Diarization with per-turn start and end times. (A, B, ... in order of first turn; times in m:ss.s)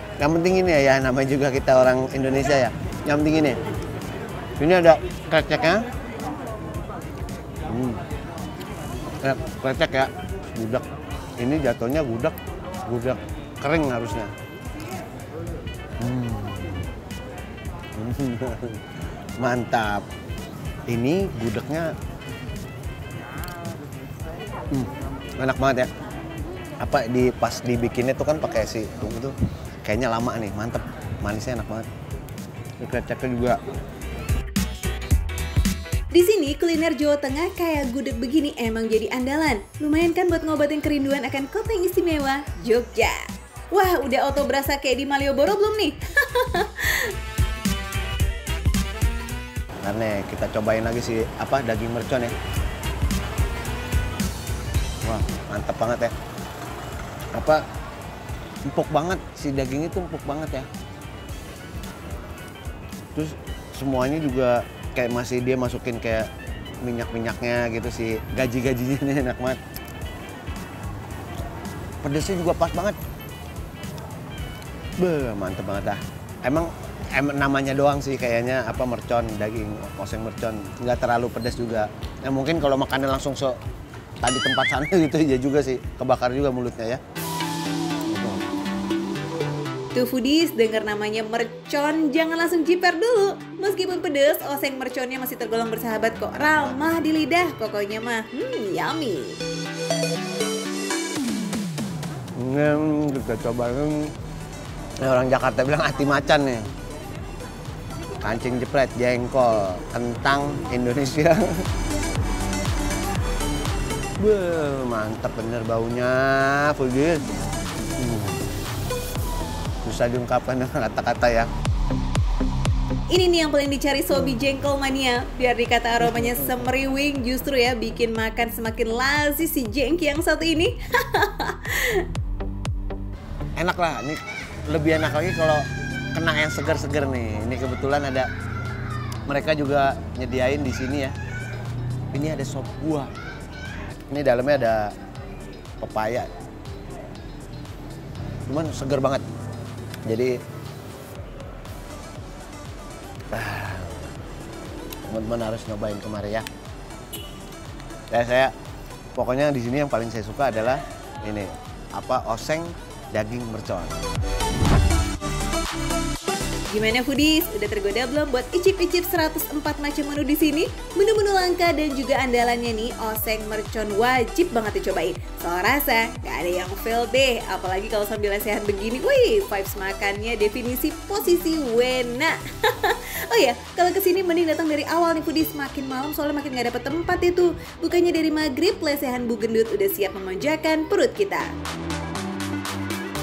0:00.2-0:03.6 A
0:04.6-0:05.9 A
0:07.7-0:08.0 A
0:09.1-0:10.8 A
0:11.4-0:14.3 A
0:16.0-0:16.9 A
0:18.0-0:20.0 A
0:20.9-0:21.9 A
0:24.7-0:25.9 A
0:26.8-0:31.9 A
0:32.8-0:33.6 A
0:36.1-0:47.1 B
0:49.8-0:52.3 A
0:55.0-0:56.1 A
0:57.3-0:57.6 A
0:58.7-1:00.7 A
1:03.1-1:06.3 A
1:06.8-1:09.6 A
1:12.0-1:13.0 A
1:15.0-1:23.6 A
1:24.2-1:27.0 A
1:28.1-1:28.4 A
1:29.9-1:39.4 B
1:42.4-1:44.1 A
1:45.0-1:46.6 A
1:48.2-1:51.6 A
1:54.2-1:57.2 A
1:58.0-1:58.4 A
1:59.8-2:01.5 A
2:03.1-2:12.0 B
2:13.6-2:15.6 A
2:16.1-2:18.3 A
2:19.3-2:21.1 A
2:22.1-2:23.1 A
2:24.1-2:24.9 A
2:25.8-2:26.3 A
2:28.5-2:29.2 A
2:30.0-2:30.4 A
2:33.3-2:34.1 A
2:35.0-2:36.4 A
2:38.1-2:38.5 A
2:39.1-2:44.0 A
2:46.7-3:11.5 B